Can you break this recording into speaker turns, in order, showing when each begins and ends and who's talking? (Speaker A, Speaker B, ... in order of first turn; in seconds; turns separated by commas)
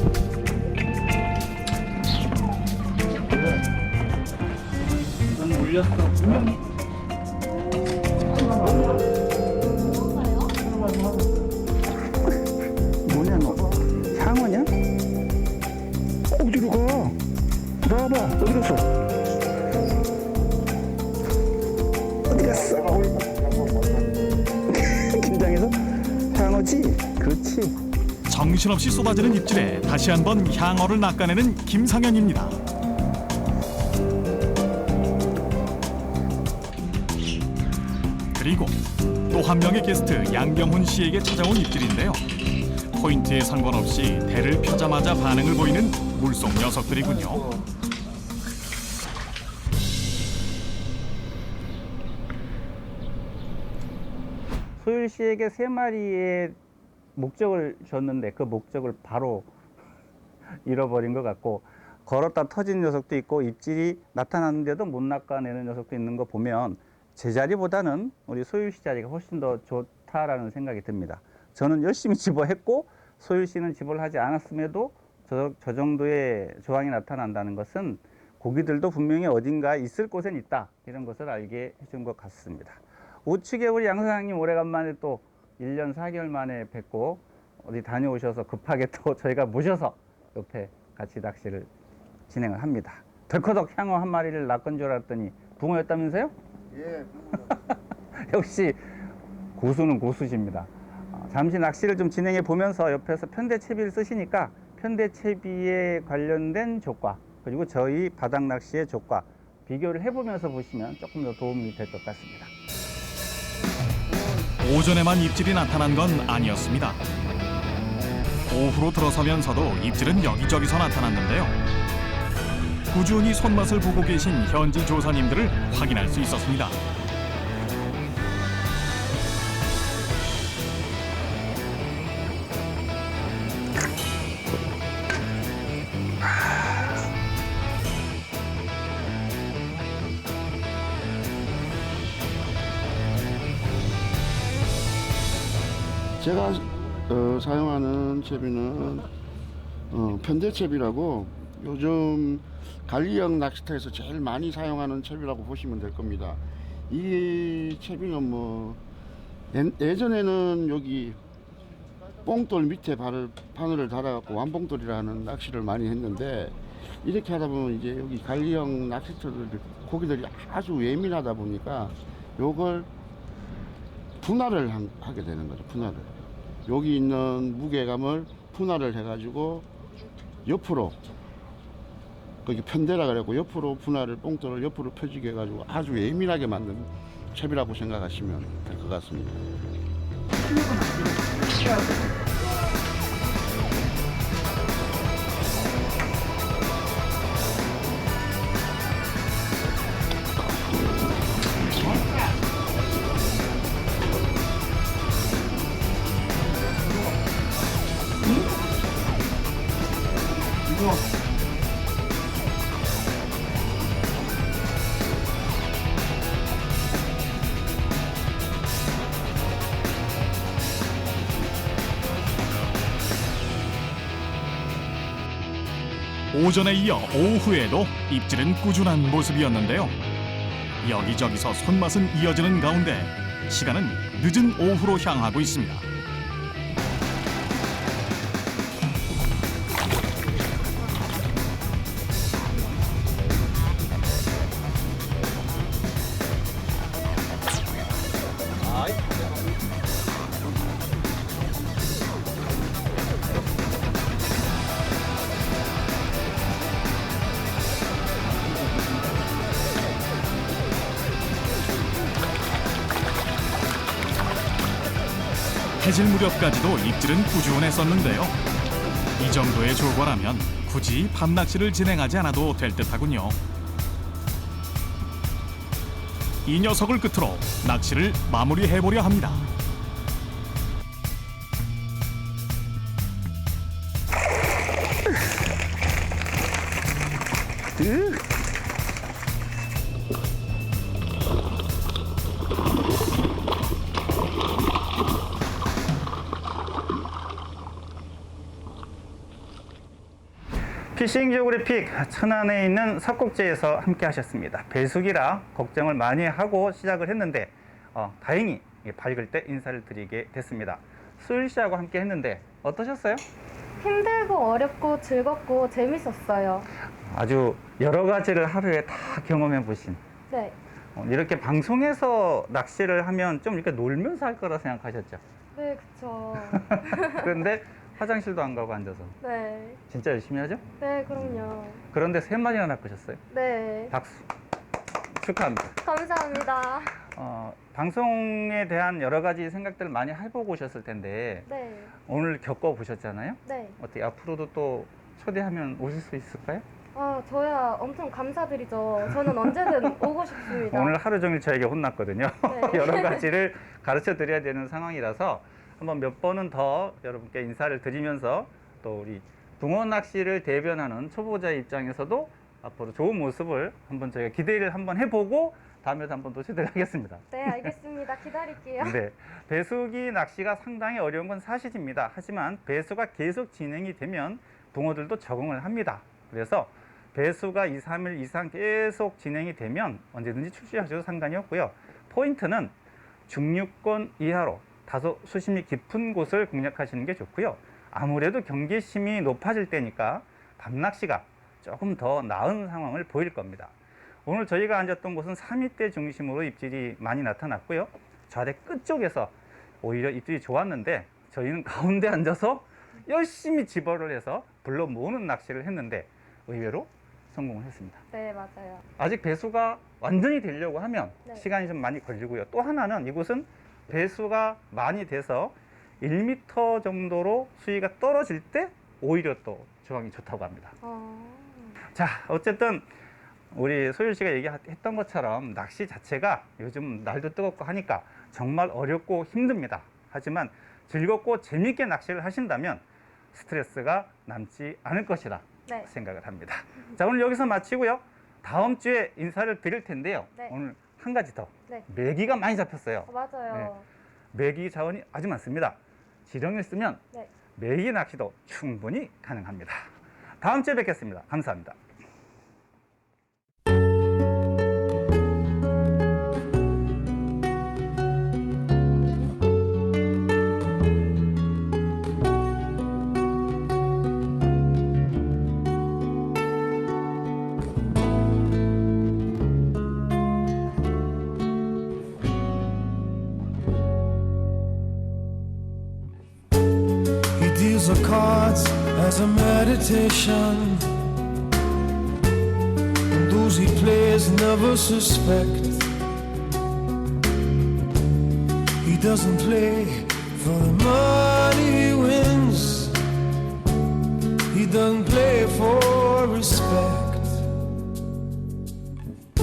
Speaker A: 5.3-6.6, Speaker B: 8.6-9.0, Speaker B: 9.7-10.6, Speaker A: 13.0-14.7, Speaker A: 16.3-17.2, Speaker A: 17.8-18.9, Speaker A: 22.3-23.2, Speaker C: 23.2-24.3, Speaker A: 24.7-27.8, Speaker D: 28.3-32.6, Speaker D: 38.3-38.8, Speaker D: 39.3-42.2, Speaker D: 42.9-47.5, Speaker A: 54.8-56.6, Speaker A: 57.1-59.5, Speaker A: 60.6-91.7, Speaker A: 92.3-96.3, Speaker A: 97.4-98.8, Speaker A: 99.5-112.5, Speaker D: 114.6-117.0, Speaker D: 118.5-121.5, Speaker D: 122.9-126.8, Speaker C: 146.2-149.1, Speaker C: 149.9-158.8, Speaker C: 159.5-161.2, Speaker C: 162.2-172.9, Speaker C: 174.2-176.1, Speaker C: 176.7-179.7, Speaker C: 180.4-181.0, Speaker C: 182.4-189.4, Speaker D: 226.3-229.9, Speaker D: 230.8-235.8, Speaker D: 265.8-268.4, Speaker D: 269.2-273.4, Speaker D: 276.4-279.4, Speaker A: 287.8-288.2, Speaker A: 300.9-313.2, Speaker B: 313.8-316.7, Speaker A: 317.1-320.0, Speaker B: 320.3-320.6, Speaker A: 320.9-325.2, Speaker B: 325.5-327.3, Speaker A: 326.4-329.1, Speaker B: 329.2-329.8, Speaker A: 329.9-330.6, Speaker B: 330.8-331.8, Speaker A: 331.9-333.2, Speaker B: 333.3-333.9, Speaker A: 333.9-334.2, Speaker A: 335.1-335.8, Speaker B: 335.8-337.0, Speaker A: 337.1-341.5, Speaker B: 341.5-341.9, Speaker A: 342.1-346.6, Speaker B: 343.5-343.8, Speaker B: 346.9-350.9, Speaker A: 349.2-367.7, Speaker B: 352.5-353.2, Speaker B: 367.3-369.0, Speaker A: 368.8-382.7, Speaker A: 383.3-393.7, Speaker A: 394.2-408.0, Speaker B: 408.1-408.8, Speaker A: 409.0-420.7, Speaker B: 420.8-421.8, Speaker A: 421.9-422.9, Speaker A: 423.5-443.7, Speaker B: 443.1-443.9, Speaker A: 444.3-447.0, Speaker A: 447.6-449.9, Speaker A: 450.4-451.8, Speaker E: 477.4-480.9, Speaker E: 483.1-485.9, Speaker E: 488.8-493.0, Speaker E: 494.5-497.4